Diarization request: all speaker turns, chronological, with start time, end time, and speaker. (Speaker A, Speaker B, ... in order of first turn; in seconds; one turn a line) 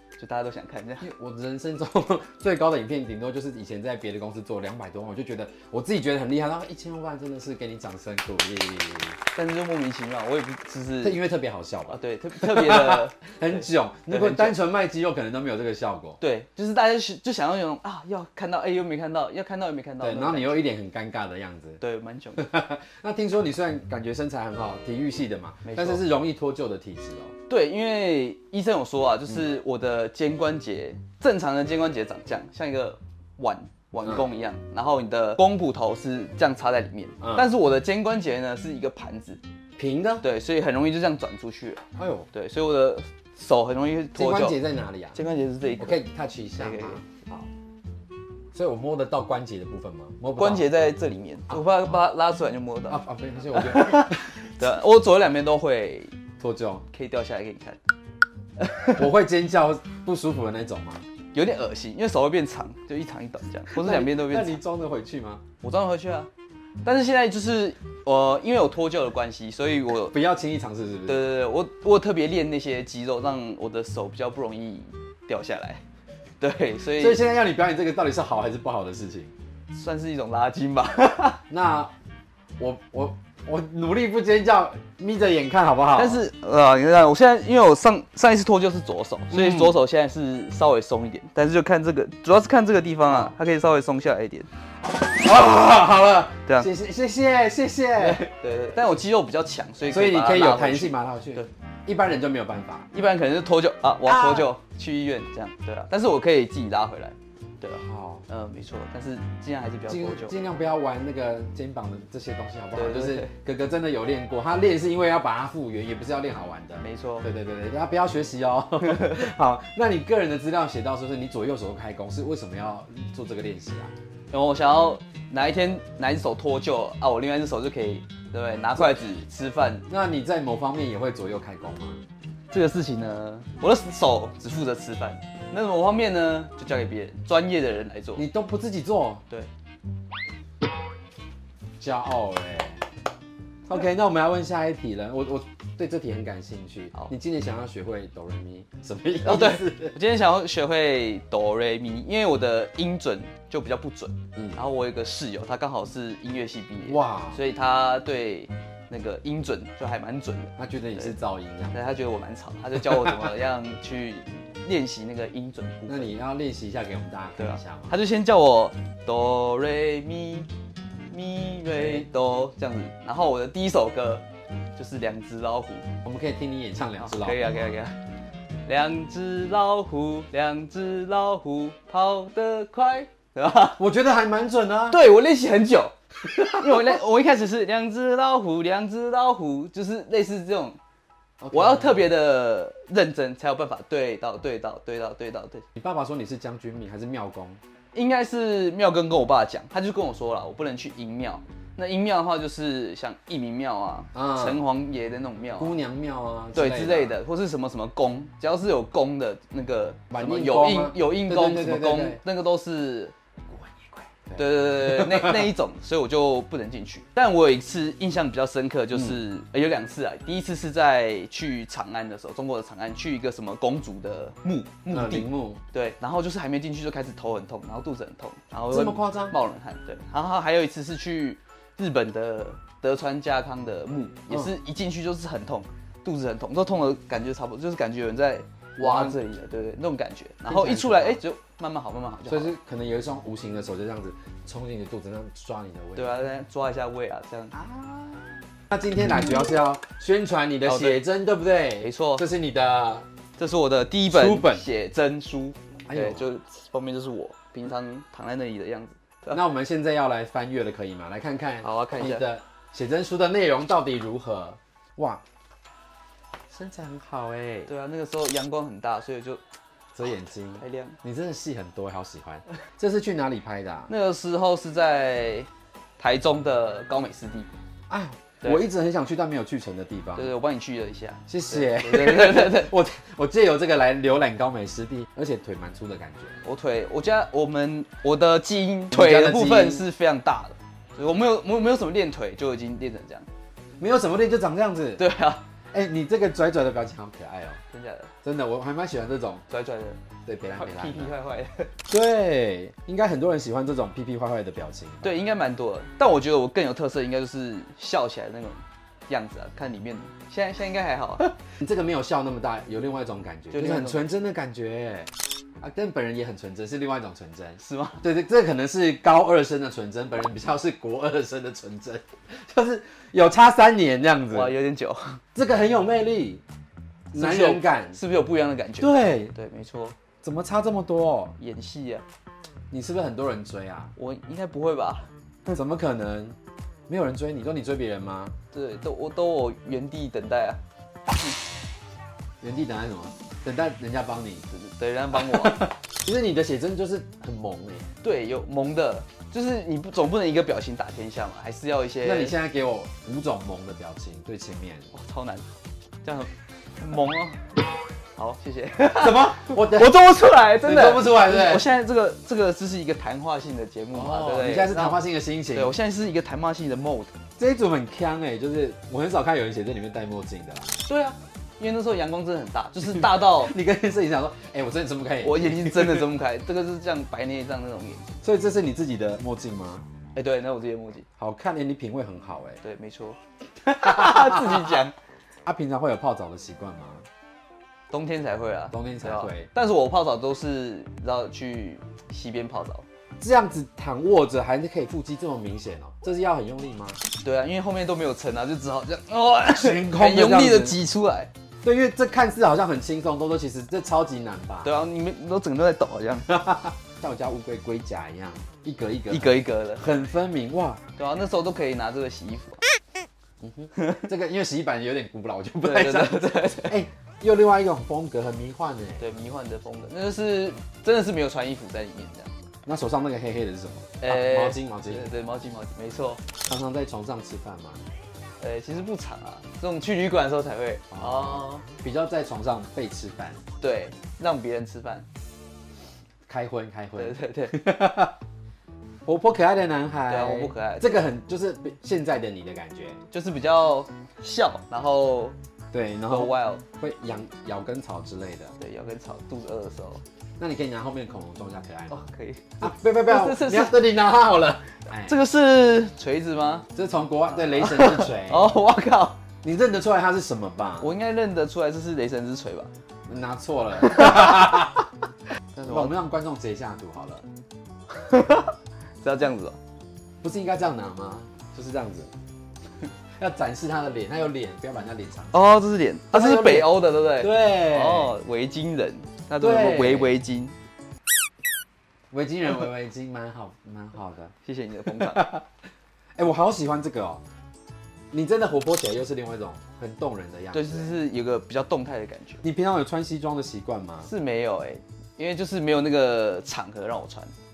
Speaker A: 0.2-1.1
Speaker B: 1.0-9.2
Speaker A: 9.3-11.2
Speaker B: 11.0-16.2
Speaker A: 11.9-14.6
Speaker A: 16.2-20.6
Speaker B: 20.0-21.8
Speaker A: 21.8-22.5
Speaker B: 22.3-27.3
Speaker A: 25.6-26.0
Speaker A: 27.5-39.4
Speaker B: 37.2-37.5
Speaker B: 39.8-40.2
Speaker A: 40.2-44.6
Speaker B: 42.0-42.3
Speaker B: 44.1-45.2
Speaker A: 45.1-46.0
Speaker B: 45.8-47.5
Speaker A: 46.5-47.0
Speaker B: 48.5-50.7
Speaker A: 50.4-53.0
Speaker B: 51.5-52.0
Speaker B: 52.9-54.5
Speaker A: 53.5-56.1
Speaker B: 56.4-56.8
Speaker A: 56.9-57.8
Speaker A: 58.6-59.1
Speaker B: 59.0-61.0
Speaker A: 61.3-64.6
Speaker B: 63.7-65.4
Speaker A: 65.6-66.3
Speaker A: 66.8-70.1
Speaker B: 70.1-71.3
Speaker A: 71.0-75.8
Speaker A: 76.4-77.2
Speaker B: 76.9-79.3
Speaker A: 79.7-81.4
Speaker B: 81.5-81.9
Speaker B: 82.6-86.2
Speaker A: 85.9-94.5
Speaker B: 89.3-89.8
Speaker B: 93.1-93.3
Speaker B: 95.0-98.3
Speaker A: 98.0-101.5
Speaker B: 99.8-102.9
Speaker A: 102.9-110.3
Speaker B: 104.0-104.5
Speaker B: 107.7-108.3
Speaker B: 109.9-123.9
Speaker A: 112.7-113.3
Speaker A: 116.8-117.3
Speaker A: 118.8-119.1
Speaker A: 124.3-129.8
Speaker B: 129.9-132.0
Speaker A: 132.5-138.2
Speaker B: 138.2-139.2
Speaker B: 141.8-142.8
Speaker B: 143.7-149.9
Speaker A: 149.2-161.1
Speaker B: 156.8-157.4
Speaker B: 160.6-161.9
Speaker A: 161.7-166.1
Speaker B: 162.8-163.3
Speaker B: 165.9-167.9
Speaker A: 167.4-170.5
Speaker A: 171.1-174.2
Speaker B: 171.7-172.1
Speaker A: 174.8-175.8
Speaker B: 176.0-177.7
Speaker A: 177.0-178.0
Speaker A: 178.7-183.8
Speaker B: 183.8-185.0
Speaker A: 184.9-190.8
Speaker B: 186.4-186.6
Speaker B: 191.4-192.1
Speaker A: 191.5-195.6
Speaker B: 195.8-197.6
Speaker A: 197.9-205.8
Speaker B: 204.1-204.6
Speaker B: 205.6-207.2
Speaker A: 206.5-213.1
Speaker B: 210.1-212.2
Speaker B: 213.5-215.5
Speaker A: 214.3-242.5
Speaker B: 218.9-219.2
Speaker B: 224.9-225.6
Speaker B: 228.7-229.4
Speaker B: 238.8-239.2
Speaker B: 240.4-241.2
Speaker B: 242.3-246.1
Speaker A: 245.9-247.6
Speaker B: 247.5-253.1
Speaker A: 250.7-251.0
Speaker A: 251.8-252.2
Speaker A: 253.4-259.4
Speaker B: 254.1-254.7
Speaker B: 255.9-256.2
Speaker B: 259.3-265.2
Speaker A: 261.6-262.3
Speaker B: 266.5-267.7
Speaker A: 267.7-269.4
Speaker B: 269.9-273.9
Speaker A: 270.6-271.0
Speaker A: 273.9-275.5
Speaker A: 276.0-277.5
Speaker B: 277.9-280.3
Speaker A: 280.1-282.7
Speaker B: 281.3-286.4
Speaker A: 286.4-293.3
Speaker B: 288.9-289.8
Speaker B: 293.8-295.0
Speaker A: 295.0-295.4
Speaker B: 295.7-297.6
Speaker A: 297.7-298.1
Speaker B: 298.2-299.4
Speaker A: 299.5-300.0
Speaker B: 300.2-301.1
Speaker A: 300.5-301.7
Speaker B: 301.9-305.1
Speaker A: 305.0-311.3
Speaker B: 311.2-315.1
Speaker A: 313.5-314.0
Speaker B: 315.6-324.5
Speaker A: 317.6-318.0
Speaker A: 324.3-325.2
Speaker B: 325.3-326.4
Speaker B: 327.1-328.0
Speaker A: 327.1-329.9
Speaker B: 328.8-329.3
Speaker B: 330.2-331.4
Speaker A: 331.4-332.0
Speaker B: 332.7-333.9
Speaker A: 333.9-335.6
Speaker B: 335.5-336.4
Speaker B: 336.9-338.3
Speaker A: 338.5-341.3
Speaker B: 342.4-344.4
Speaker A: 344.5-345.7
Speaker B: 345.1-347.9
Speaker A: 348.0-352.3
Speaker B: 352.0-354.9
Speaker A: 354.9-355.4
Speaker A: 356.0-357.6
Speaker A: 358.2-365.0
Speaker B: 358.9-360.0
Speaker B: 360.6-361.7
Speaker B: 363.9-365.7
Speaker A: 365.5-367.1
Speaker B: 367.4-370.7
Speaker A: 370.8-373.5
Speaker B: 372.8-376.1
Speaker A: 375.2-378.1
Speaker B: 378.2-379.8
Speaker A: 380.1-381.1
Speaker B: 381.2-382.6
Speaker A: 382.6-383.2
Speaker B: 383.6-384.9
Speaker A: 383.8-384.9
Speaker B: 385.4-387.1
Speaker A: 387.9-392.8
Speaker B: 388.7-389.5
Speaker B: 393.2-397.0
Speaker A: 397.2-401.3
Speaker B: 399.5-400.8
Speaker B: 401.6-404.8
Speaker A: 404.6-406.4
Speaker B: 406.3-410.8
Speaker A: 409.1-409.9
Speaker A: 411.0-412.6
Speaker B: 413.4-419.0
Speaker A: 413.8-414.1
Speaker A: 415.6-416.8
Speaker A: 419.0-422.3
Speaker B: 422.6-425.1
Speaker A: 424.0-426.2
Speaker B: 426.4-427.8
Speaker A: 428.4-431.6
Speaker B: 430.9-433.4
Speaker A: 433.6-435.1
Speaker B: 436.3-438.1
Speaker A: 437.0-437.6
Speaker B: 439.1-443.0
Speaker A: 440.1-441.0
Speaker A: 443.1-445.3
Speaker B: 445.7-448.5
Speaker A: 446.1-446.6
Speaker A: 448.6-450.0
Speaker B: 450.4-451.9
Speaker A: 451.9-453.8
Speaker B: 452.6-455.2
Speaker A: 455.0-456.6
Speaker B: 456.7-458.5
Speaker A: 457.4-459.2
Speaker B: 459.4-460.9
Speaker A: 460.8-462.7
Speaker B: 463.1-464.8
Speaker A: 463.8-464.6
Speaker A: 465.5-465.9
Speaker B: 465.6-467.2
Speaker A: 467.9-469.6
Speaker B: 470.2-472.1
Speaker B: 473.2-475.4
Speaker A: 475.3-480.5
Speaker B: 476.1-478.1
Speaker B: 479.4-480.2
Speaker B: 482.1-484.3
Speaker A: 484.4-485.3
Speaker B: 484.9-485.4
Speaker B: 486.2-487.2
Speaker B: 488.1-491.0
Speaker A: 490.5-492.4
Speaker B: 492.4-494.1
Speaker A: 494.0-497.3